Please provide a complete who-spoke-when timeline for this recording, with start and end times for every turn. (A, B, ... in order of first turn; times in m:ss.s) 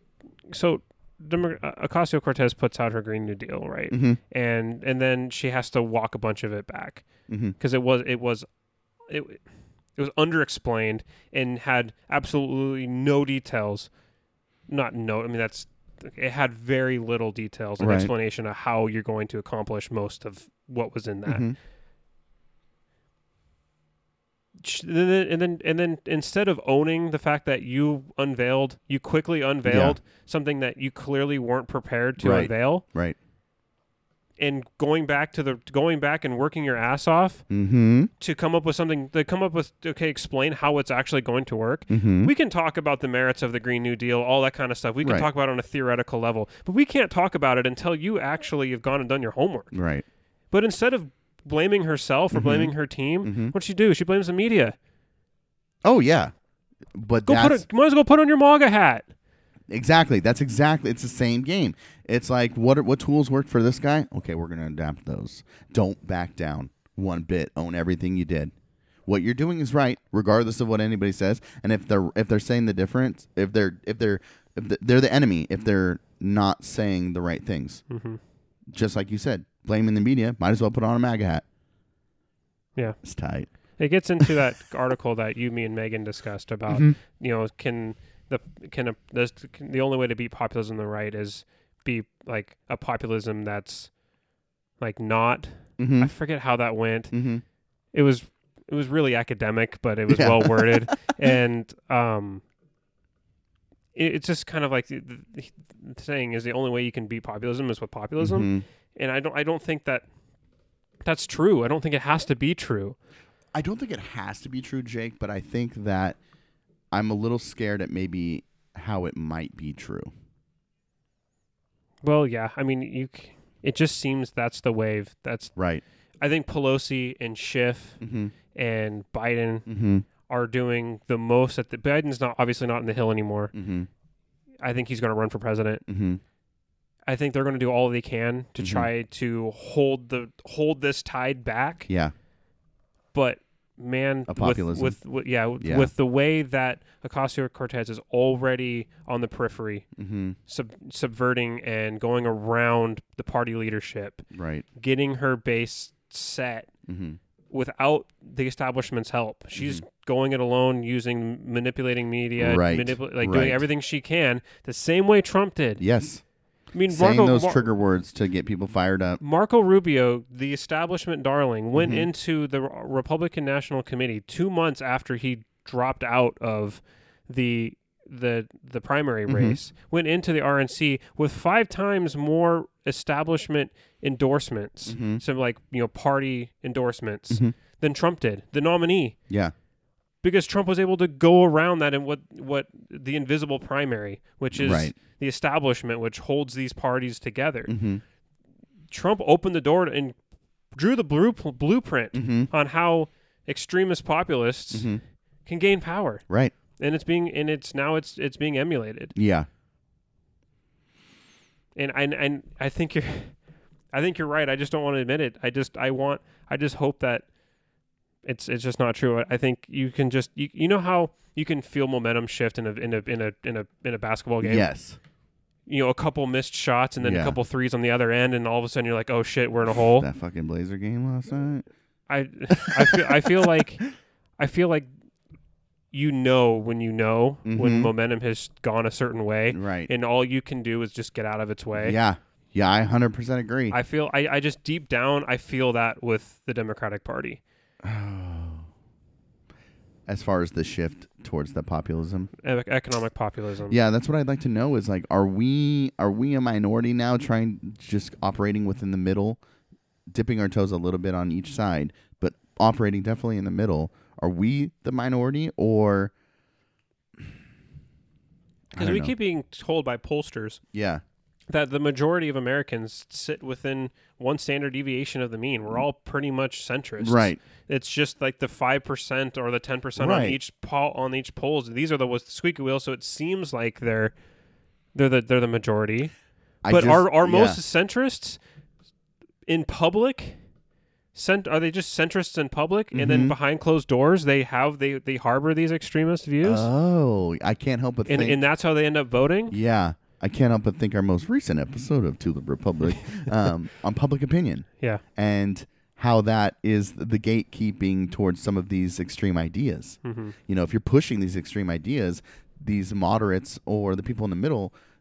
0:00.5-0:07.0 A
0:03.9-0:04.2 B
0:07.3-0:07.5 B
0:07.6-0:08.5 A
0:09.1-0:09.4 A
0:10.0-0:13.9 A
0:14.7-0:21.4 A
0:17.8-0:18.1 B
0:21.2-0:21.6 B
0:24.6-0:32.8 A
0:29.6-0:30.0 B
0:32.2-0:33.2 B
0:34.4-0:37.4 A
0:37.5-0:38.1 B
0:38.2-0:49.7 A
0:41.9-0:42.3 B
0:49.7-0:50.0 B
0:50.5-0:54.8 A
0:52.3-0:53.5 B
0:55.8-0:56.3 B
0:56.9-0:57.6 B
0:57.2-0:59.1 A
0:59.7-1:08.5 B
1:09.1-1:17.8 B
1:17.9-1:18.2 A
1:18.7-1:21.4 B
1:23.0-1:23.5 B
1:23.8-1:33.9 A
1:26.7-1:27.0 B
1:34.8-1:37.1 A
1:35.8-1:36.1 B
1:37.1-1:37.4 B
1:37.9-1:42.4 A
1:40.1-1:41.3 B
1:43.9-1:50.0 A
1:48.2-1:48.6 B
1:51.0-1:53.0 A
1:53.5-1:56.2 B
1:56.9-2:00.1 B
2:02.0-2:05.5 A
2:05.6-2:05.8 B
2:06.2-2:08.0 A
2:08.0-2:08.3 B
2:08.5-2:09.6 A
2:09.7-2:10.0 B
2:10.3-2:13.5 A
2:13.5-2:13.9 B
2:14.6-2:15.8 A
2:15.9-2:16.2 B
2:17.1-2:21.9 A
2:18.6-2:18.9 B
2:21.9-2:22.1 B
2:23.1-2:29.8 A
2:24.3-2:25.0 B
2:25.6-2:25.9 B
2:30.0-2:30.4 B
2:30.5-2:34.2 A
2:34.3-2:34.6 B
2:34.8-2:36.7 A
2:36.9-2:37.2 B
2:37.5-2:45.8 A
2:39.6-2:39.8 B
2:42.4-2:43.6 B
2:45.8-2:46.2 B
2:46.7-2:47.7 A
2:46.9-2:49.2 B
2:49.2-3:09.2 A
2:51.7-2:52.1 B
2:59.3-2:59.6 B
3:04.9-3:05.2 B
3:10.2-3:17.7 A
3:14.5-3:14.9 B
3:17.7-3:18.0 B
3:18.9-3:20.2 A
3:20.7-3:24.9 A
3:22.1-3:22.5 B
3:24.7-3:25.0 B
3:25.4-3:26.2 A
3:26.8-3:29.1 A
3:29.2-3:29.5 B
3:31.7-3:33.4 A
3:33.9-3:37.2 A
3:38.2-3:44.7 A
3:44.4-3:45.0 B
3:45.7-3:50.0 A
3:47.0-3:47.4 B
3:49.7-3:51.7 B
3:52.1-3:53.8 A
3:52.6-3:53.5 B
3:54.4-3:54.9 A
3:55.9-4:02.0 A
3:57.4-3:57.9 B
3:59.5-3:59.9 B
4:01.8-4:03.8 B
4:03.7-4:07.4 A
4:07.8-4:08.7 B
4:10.1-4:12.3 B
4:12.4-4:13.8 A
4:13.7-4:19.4 B
4:20.1-4:26.1 B
4:28.7-4:29.1 B
4:28.8-4:30.6 A
4:30.7-4:31.0 B
4:31.5-4:44.1 A
4:37.0-4:37.4 B
4:40.0-4:40.4 B
4:44.9-4:46.1 A
4:46.6-4:47.6 B
4:46.7-4:48.4 A
4:49.5-4:50.4 A
4:51.1-4:56.7 A
4:52.9-4:53.3 B
4:56.4-4:58.4 B
4:58.1-4:59.6 A
4:59.5-5:14.7 B
5:10.0-5:10.3 A